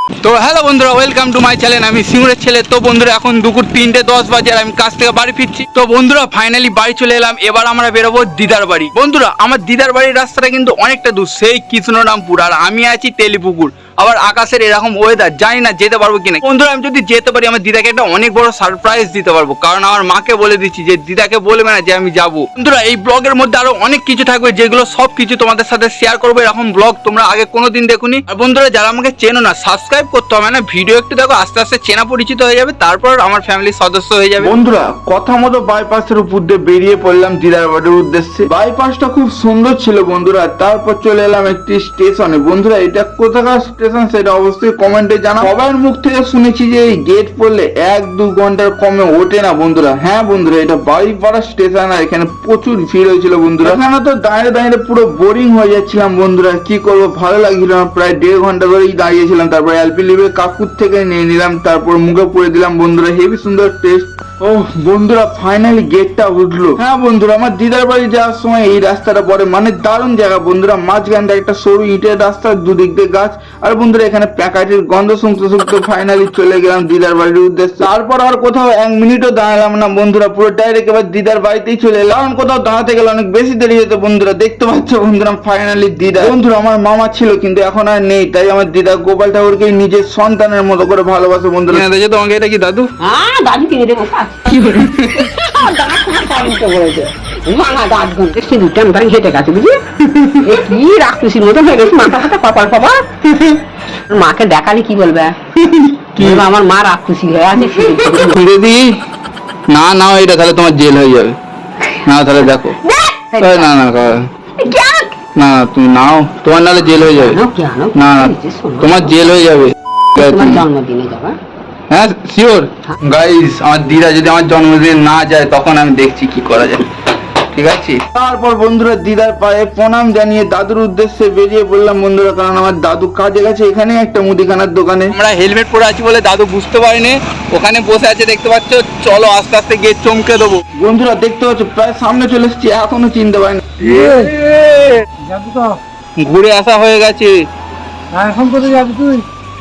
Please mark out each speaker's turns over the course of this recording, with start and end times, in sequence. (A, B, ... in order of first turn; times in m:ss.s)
0:00.2-0:34.5 A
0:34.4-1:31.8 B
1:31.7-1:32.9 A
1:33.0-1:43.5 C
1:34.8-1:35.1 A
1:44.1-1:45.4 C
1:46.1-1:48.4 C
1:46.2-1:46.4 A
1:48.2-1:49.0 A
1:49.7-1:51.4 A
1:51.9-1:53.7 C
1:52.0-1:52.8 A
1:53.4-1:54.3 A
1:54.6-1:55.2 C
1:55.4-1:57.4 A
1:56.8-1:59.3 C
1:57.9-2:00.6 A
2:00.2-2:01.4 C
2:01.9-2:06.9 A
2:07.5-2:08.0 A
2:08.1-2:15.1 B
2:15.1-2:20.6 A
2:20.8-2:23.9 B
2:23.8-2:25.0 A
2:23.9-2:24.3 D
2:25.2-2:25.8 D
2:26.2-2:27.3 A
2:28.1-2:29.2 D